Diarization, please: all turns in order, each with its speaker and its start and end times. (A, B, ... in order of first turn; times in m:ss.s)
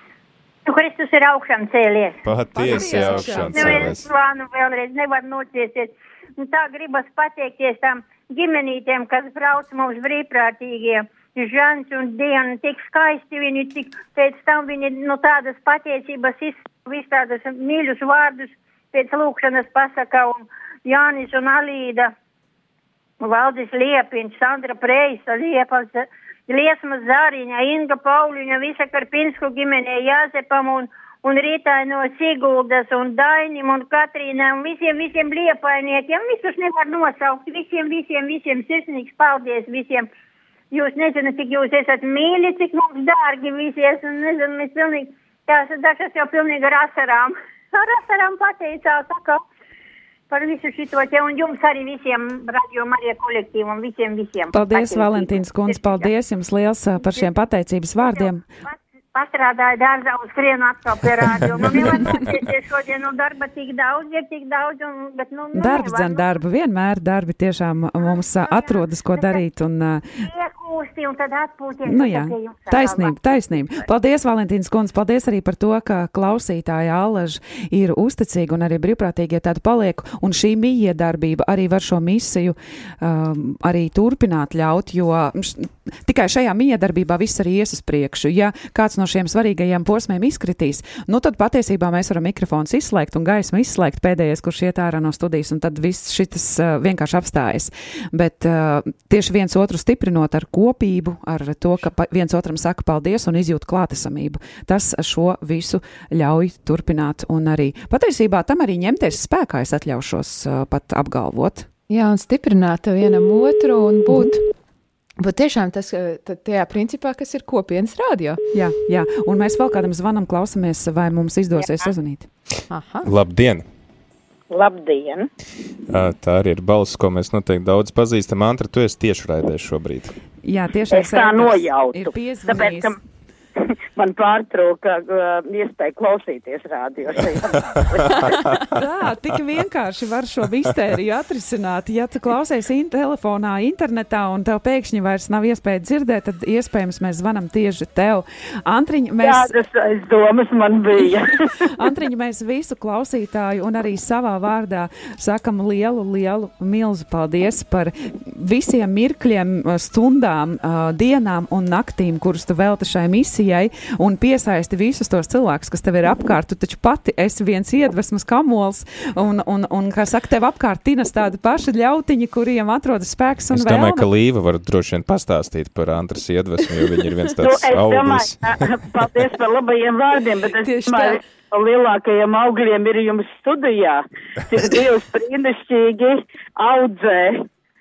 0:00.7-0:02.2 A
0:02.2-0:04.1 B
0:02.6-0:03.9 C
0:02.8-0:22.1 A
0:23.2-0:40.1 A
0:40.7-0:49.4 A
0:50.3-0:56.1 A
0:54.5-0:58.5 D
0:57.0-0:57.4 A
0:58.0-1:06.3 A
1:05.5-1:10.1 D
1:08.0-1:09.4 A
1:10.2-1:13.9 A
1:11.8-1:51.7 D
1:51.9-1:54.4 C
1:55.2-1:58.4 C
1:58.5-2:02.3 D
2:02.7-2:03.1 C
2:03.0-2:03.6 B
2:04.5-2:05.3 E
2:05.9-2:10.1 B
2:10.4-2:13.0 D
2:10.9-2:13.0 E
2:13.6-2:18.5 E
2:18.8-2:29.6 D
2:29.2-2:31.4 E
2:31.7-2:54.1 D
2:53.5-2:58.7 B
2:57.4-3:07.5 E
3:00.6-3:01.2 C